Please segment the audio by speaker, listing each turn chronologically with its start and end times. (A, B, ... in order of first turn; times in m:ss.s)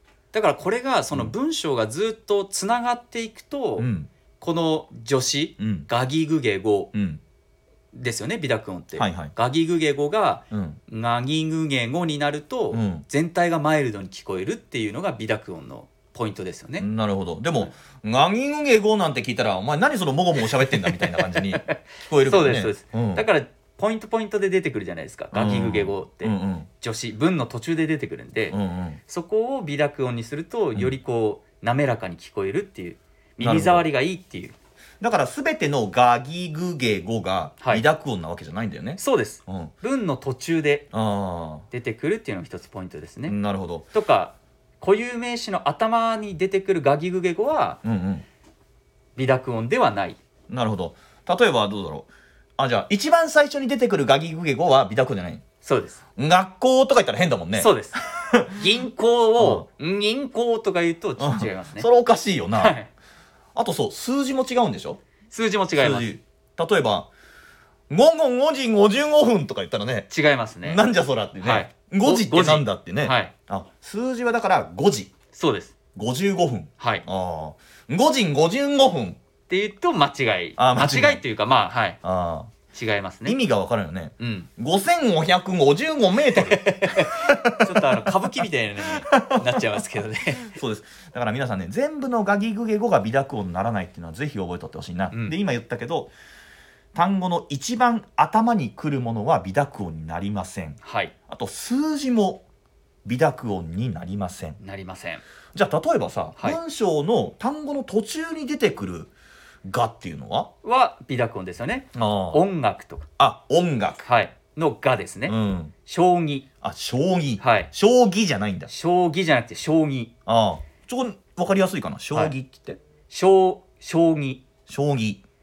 0:00.3-0:03.9 A
0:03.8-0:04.1 B
0:04.4-0:06.9 A
0:05.6-0:05.9 B
0:06.9-0:07.2 B
0:07.9-0:16.9 A
0:09.0-0:09.3 B
0:10.5-0:10.8 B
0:12.7-0:13.0 B
0:16.8-0:23.3 B
0:20.4-0:28.6 A
0:25.3-0:26.7 B
0:28.5-0:29.0 B
0:29.1-0:34.6 A
0:33.4-0:33.9 B
0:35.0-0:39.7 B
0:39.0-0:40.9 A
0:40.9-0:41.7 B
0:41.7-0:43.4 A
0:43.3-0:43.9 B
0:43.9-0:47.8 A
0:47.8-0:48.2 B
0:49.2-0:50.2 A
0:50.5-0:55.4 B
0:55.6-0:56.0 A
0:56.2-0:58.6 B
0:57.6-0:58.0 A
0:58.5-1:01.9 A
0:59.4-0:59.7 B
1:01.2-1:02.8 B
1:02.6-1:02.9 A
1:03.6-1:05.0 B
1:05.3-1:06.1 A
1:05.8-1:07.1 B
1:07.9-1:10.1 B
1:10.1-1:10.8 A
1:10.6-1:15.1 B
1:11.4-1:13.3 A
1:15.3-1:15.7 A
1:16.0-1:19.2 B
1:16.8-1:17.0 A
1:19.5-1:22.0 A
1:20.6-1:21.2 B
1:22.0-1:22.6 B
1:22.7-1:23.4 A
1:23.2-1:28.2 B
1:24.2-1:24.5 A
1:26.3-1:30.6 A
1:29.0-1:29.8 B
1:30.4-1:36.1 B
1:36.9-1:42.4 B
1:40.8-1:41.1 A
1:43.0-1:44.6 B
1:44.6-1:45.2 A
1:45.5-1:49.1 B
1:49.6-1:50.5 B
1:50.6-1:53.1 A
1:51.9-1:52.4 B
1:53.2-1:54.0 B
1:54.0-1:55.4 A
1:55.3-1:55.7 B
1:55.9-1:56.5 A
1:56.6-1:58.7 B
1:57.4-1:57.7 A
1:58.7-2:00.1 A
2:00.3-2:02.8 B
2:03.1-2:04.4 A
2:04.7-2:05.2 B